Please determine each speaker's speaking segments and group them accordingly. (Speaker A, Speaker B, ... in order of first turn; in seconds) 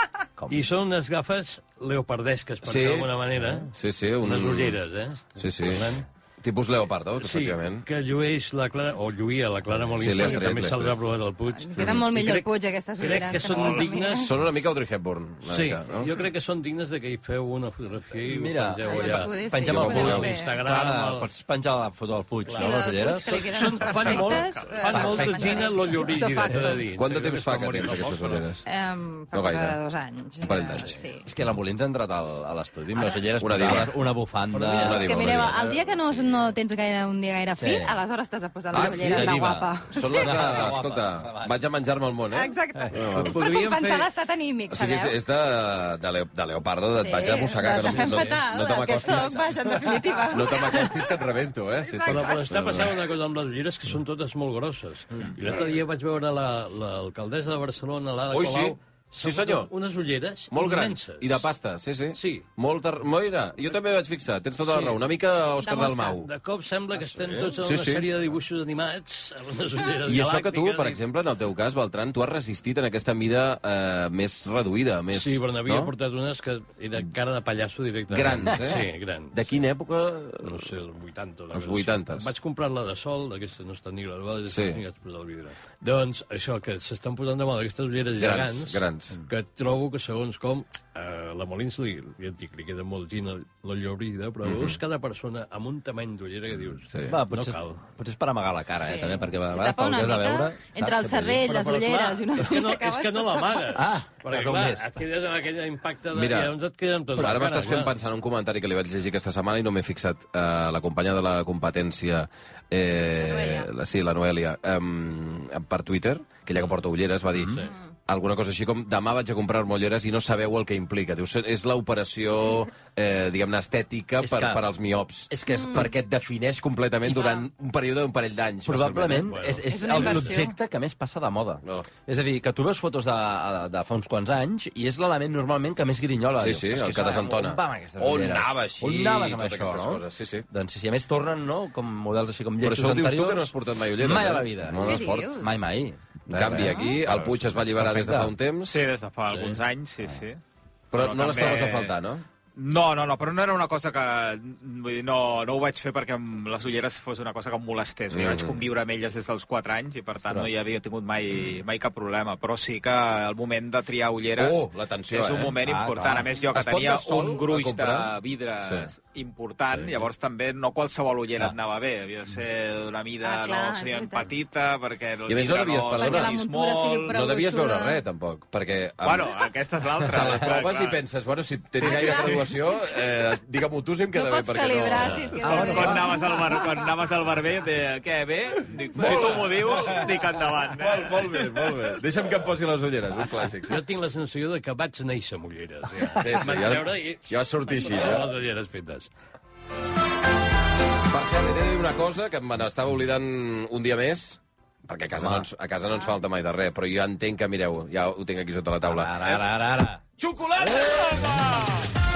Speaker A: 0.5-3.7, 4.2-6.0, 7.2-12.5, 13.0-14.3, 15.4-21.3, 22.5-28.5, 34.5-35.0, 43.1-44.1, 47.8-48.4, 52.0-61.4, 62.1-62.5, 64.7-65.0, 66.2-71.0, 75.1-79.5, 80.4-97.8, 101.2-107.9, 129.2-130.0, 185.0-185.3, 193.7-199.1
Speaker B: 2.6-3.1, 3.7-4.8, 5.4-7.8, 10.0-11.0, 11.8-12.0, 14.1-16.1, 19.7-20.3, 26.9-28.6, 29.3-29.8, 30.4-30.9, 33.4-34.0, 34.8-36.2, 38.7-43.4, 44.7-53.0, 58.3-59.7, 60.5-66.3, 67.5-68.1, 70.0-75.9, 78.1-80.7, 81.5-82.3, 84.5-84.8, 88.1-89.2, 94.4-94.8, 96.9-97.2, 106.1-106.5, 107.1-129.3, 136.4-140.4, 142.6-145.3, 146.3-148.8, 150.9-152.2, 158.1-158.6, 164.3-165.6, 166.5-168.9, 175.2-176.4, 177.1-179.4, 180.0-185.8, 188.9-193.8, 196.1-198.3, 201.1-209.4, 210.2-211.8
Speaker C: 11.5-14.3, 18.9-20.5, 22.5-26.9, 28.6-31.2, 34.8-40.5, 42.3-45.1, 47.0-51.1, 51.8-52.5, 65.6-66.2, 98.8-103.8, 113.2-113.7, 125.5-125.9, 127.1-127.5, 129.7-130.6, 144.8-145.5, 146.6-147.0, 173.2-174.3, 175.9-178.0, 181.8-182.9, 184.1-186.3
Speaker D: 13.5-13.9, 24.1-24.9, 148.6-150.4, 150.9-151.9, 152.5-177.2, 179.0-181.0, 181.8-182.2, 185.4-191.3, 210.8-211.3
Speaker E: 18.3-23.5, 24.0-24.3, 24.9-25.7, 31.2-35.8, 37.5-38.0, 38.7-41.5, 42.7-43.1, 66.9-67.5, 97.0-101.4, 103.7-104.8, 124.2-124.6, 125.3-125.9, 128.7-148.3, 165.6-166.2, 185.4-186.2, 205.2-205.4, 208.8-210.0